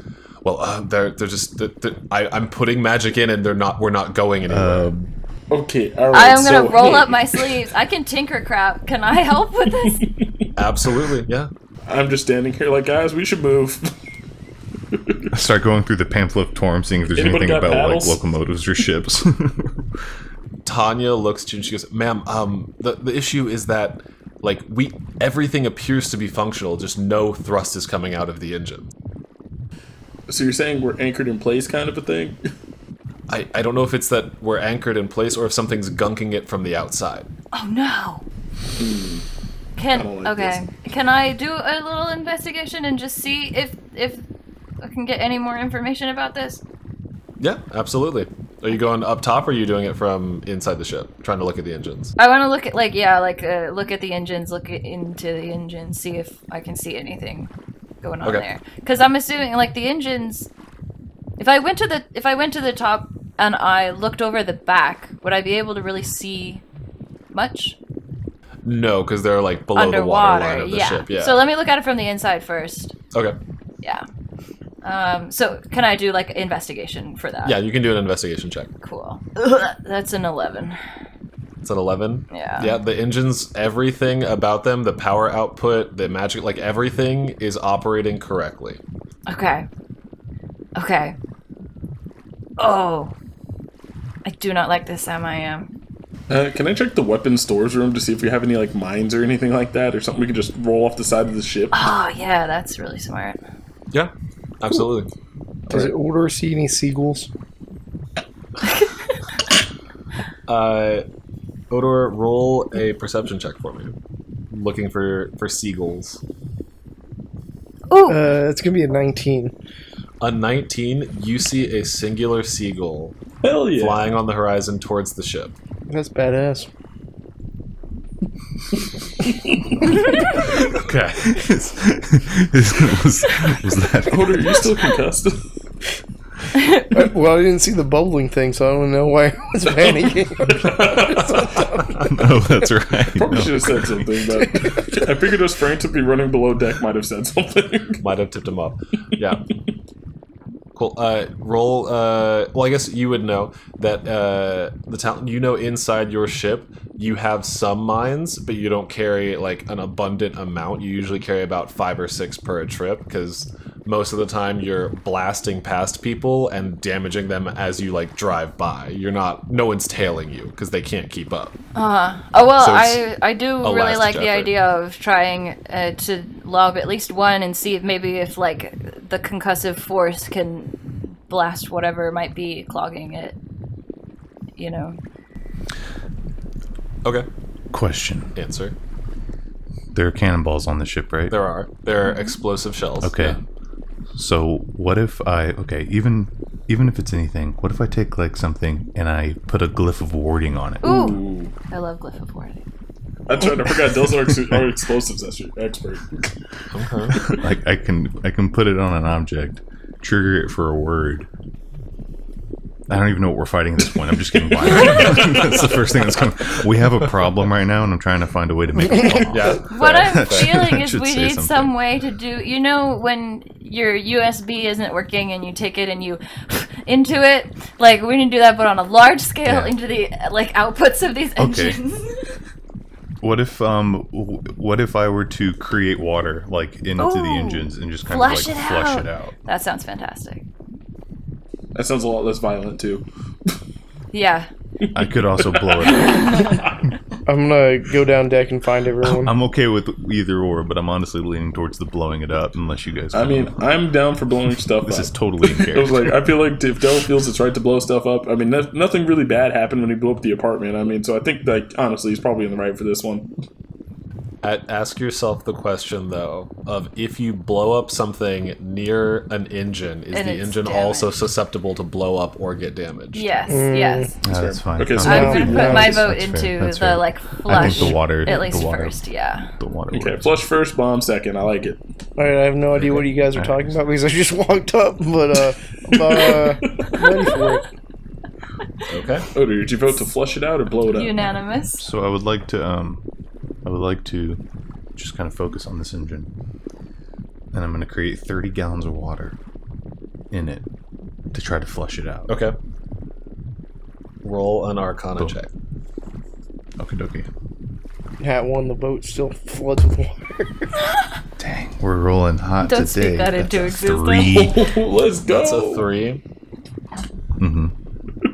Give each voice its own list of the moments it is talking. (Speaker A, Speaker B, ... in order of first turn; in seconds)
Speaker A: 0.4-5.1, 10.6-11.5, 20.6-28.9, 33.3-37.3, 47.4-52.1, 68.6-71.4, 77.4-78.7, 81.6-88.8, 103.9-105.1, 110.5-111.0, 111.7-114.0, 114.5-116.2, 120.2-123.2, 123.8-125.5, 130.7-131.4, 148.0-149.4, 150.7-171.5, 172.6-173.0, 173.6-174.5, 188.3-188.8, 191.3-193.4, 206.7-207.2, 219.2-220.7, 264.4-273.3, 288.9-289.2, 302.3-302.6, 304.2-305.5, 315.3-316.2
Speaker B: 4.5-5.0, 15.3-19.9, 131.2-134.7, 142.0-144.0, 187.7-188.3, 189.9-191.3, 193.0-193.4, 194.2-200.9, 207.2-211.3, 212.9-221.7, 229.4-229.7, 231.4-231.8, 233.2-239.3, 244.9-246.6, 249.0-253.6, 254.8-256.1, 274.2-279.0, 279.6-280.3, 282.7-283.6, 291.8-293.0, 293.6-294.4, 294.9-296.3, 297.5-299.4, 300.3-300.6, 301.3-302.3, 306.8-307.3, 311.4-314.6, 317.4-317.7
Speaker C: 5.5-7.5, 9.7-10.5, 11.9-13.9, 14.9-15.3, 17.1-18.2, 30.3-32.4, 38.8-39.2, 39.9-40.6, 96.3-101.8, 123.4-124.0, 134.1-135.4, 140.4-141.6, 143.1-148.0, 200.8-201.5, 203.3-206.3, 214.5-215.6, 241.7-243.5, 244.8-246.5, 253.1-263.3, 274.2-276.0, 279.9-281.8, 285.9-287.3, 289.3-291.2, 314.3-315.9
Speaker D: 6.1-10.0, 37.5-38.2, 39.8-44.2, 44.8-46.6, 52.2-57.5, 58.0-60.5, 61.4-66.6, 67.3-67.8, 69.7-72.9, 74.8-77.6, 78.8-80.8, 82.3-82.8, 89.3-89.7, 90.8-91.2, 92.6-93.1, 94.2-95.7, 101.7-103.4, 108.6-109.1, 117.9-118.2, 136.5-136.8, 171.7-183.4, 184.6-185.0, 200.8-202.6, 219.7-232.3, 237.0-240.4, 244.1-244.5, 245.9-246.6, 270.1-271.1, 273.1-274.1, 275.0-279.5, 290.9-291.9, 312.6-314.5
Speaker E: 105.7-107.3, 118.1-119.5, 125.9-126.7, 136.8-142.1, 144.3-145.0, 218.9-219.2, 247.2-249.3, 273.5-274.1, 275.0-276.0, 277.6-277.9, 282.2-287.6, 308.2-310.7